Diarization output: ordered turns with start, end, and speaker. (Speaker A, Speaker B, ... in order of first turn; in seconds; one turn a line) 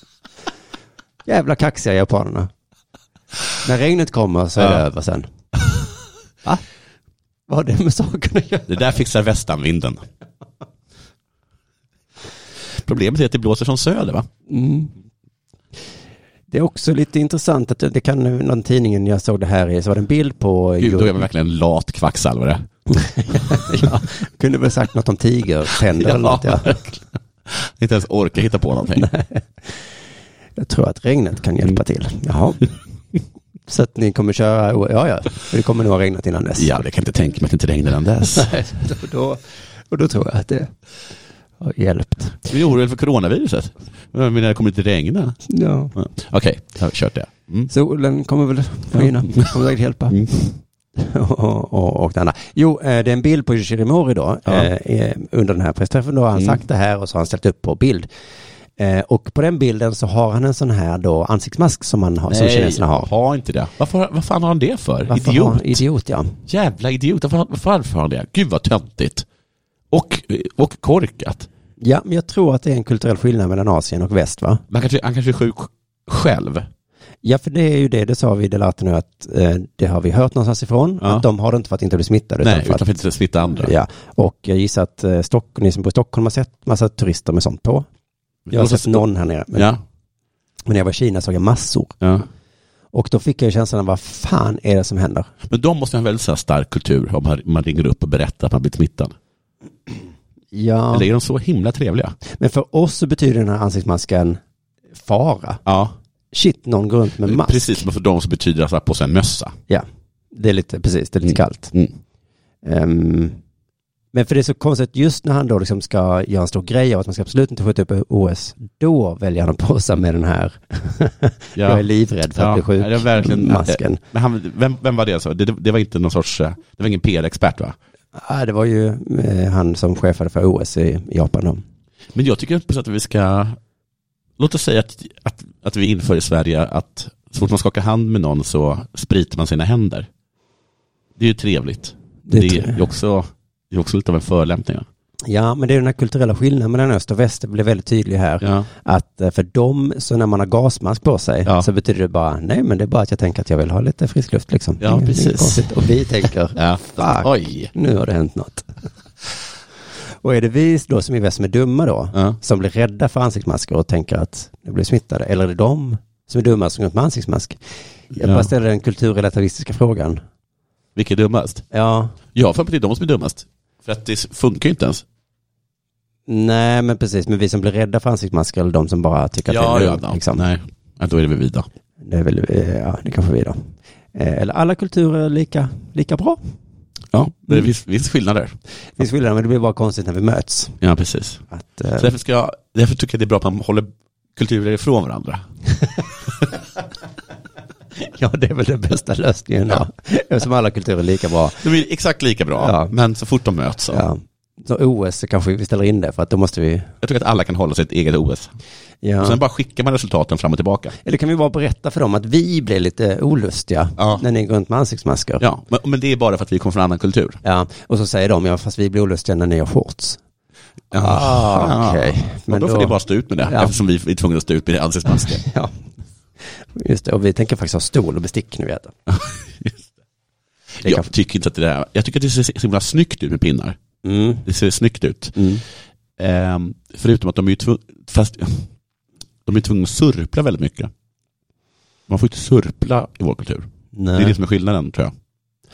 Speaker A: 1.3-2.5
Speaker A: 3.6-5.3
Speaker A: 7.5-8.9
Speaker B: 8.7-10.0
Speaker B: 12.8-14.3
Speaker A: 14.5-14.9
Speaker A: 16.5-21.2
Speaker B: 20.8-22.7
Speaker A: 22.9-26.9
Speaker B: 25.9-26.9
Speaker B: 27.5-29.1
Speaker A: 29.0-29.8
Speaker A: 30.6-32.8
Speaker A: 33.7-36.8
Speaker B: 36.6-38.5
Speaker A: 38.3-40.7
Speaker A: 41.6-42.5
Speaker B: 42.5-45.4
Speaker A: 45.5-46.0
Speaker B: 46.0-47.7
Speaker A: 47.7-50.3
Speaker B: 49.0-49.5
Speaker B: 50.1-50.5
Speaker A: 51.0-58.1
Speaker A: 58.8-63.1
Speaker B: 62.3-65.8
Speaker A: 65.1-66.4
Speaker B: 66.5-69.3
Speaker B: 69.9-71.5
Speaker A: 71.8-74.6
Speaker B: 74.7-76.7
Speaker A: 77.2-82.9
Speaker B: 82.4-83.7
Speaker A: 83.6-87.9
Speaker B: 88.5-89.0
Speaker A: 88.5-89.7
Speaker B: 89.5-89.8
Speaker A: 90.7-92.0
Speaker B: 92.0-92.3
Speaker A: 92.9-95.3
Speaker B: 95.5-99.2
Speaker A: 100.5-101.1
Speaker B: 100.9-102.2
Speaker A: 102.2-104.4
Speaker A: 105.0-105.6
Speaker B: 105.7-106.0
Speaker A: 106.3-107.8
Speaker B: 107.2-109.6
Speaker A: 109.7-111.7
Speaker A: 112.6-113.4
Speaker A: 114.1-124.0
Speaker B: 121.6-127.8
Speaker A: 128.2-131.6
Speaker B: 132.1-133.6
Speaker B: 134.4-140.1
Speaker B: 141.2-144.9
Speaker A: 142.3-142.8
Speaker A: 145.3-158.9
Speaker B: 148.4-148.7
Speaker B: 154.8-157.7
Speaker A: 160.2-167.6
Speaker A: 168.1-170.2
Speaker B: 168.2-168.5
Speaker B: 171.0-171.7
Speaker A: 171.7-172.2
Speaker B: 172.3-175.1
Speaker A: 176.3-180.4
Speaker B: 179.5-181.7
Speaker A: 182.0-186.4
Speaker B: 187.1-188.6
Speaker A: 189.0-190.8
Speaker B: 190.8-191.4
Speaker A: 191.5-192.1
Speaker B: 192.0-195.5
Speaker A: 198.0-201.7
Speaker B: 201.6-204.1
Speaker A: 202.6-202.9
Speaker A: 203.9-206.9
Speaker B: 207.0-208.5
Speaker A: 209.0-209.4
Speaker B: 209.2-210.9
Speaker A: 211.0-215.4
Speaker B: 214.0-214.2
Speaker B: 215.4-217.4
Speaker A: 217.4-220.2
Speaker B: 220.9-225.5
Speaker A: 220.9-223.8
Speaker A: 225.2-225.7
Speaker A: 226.4-228.9
Speaker B: 229.1-229.8
Speaker B: 230.8-233.8
Speaker A: 234.0-234.5
Speaker B: 234.5-235.4
Speaker A: 235.4-235.6
Speaker B: 236.2-238.7
Speaker B: 239.5-240.9
Speaker B: 242.1-245.1
Speaker A: 243.9-244.4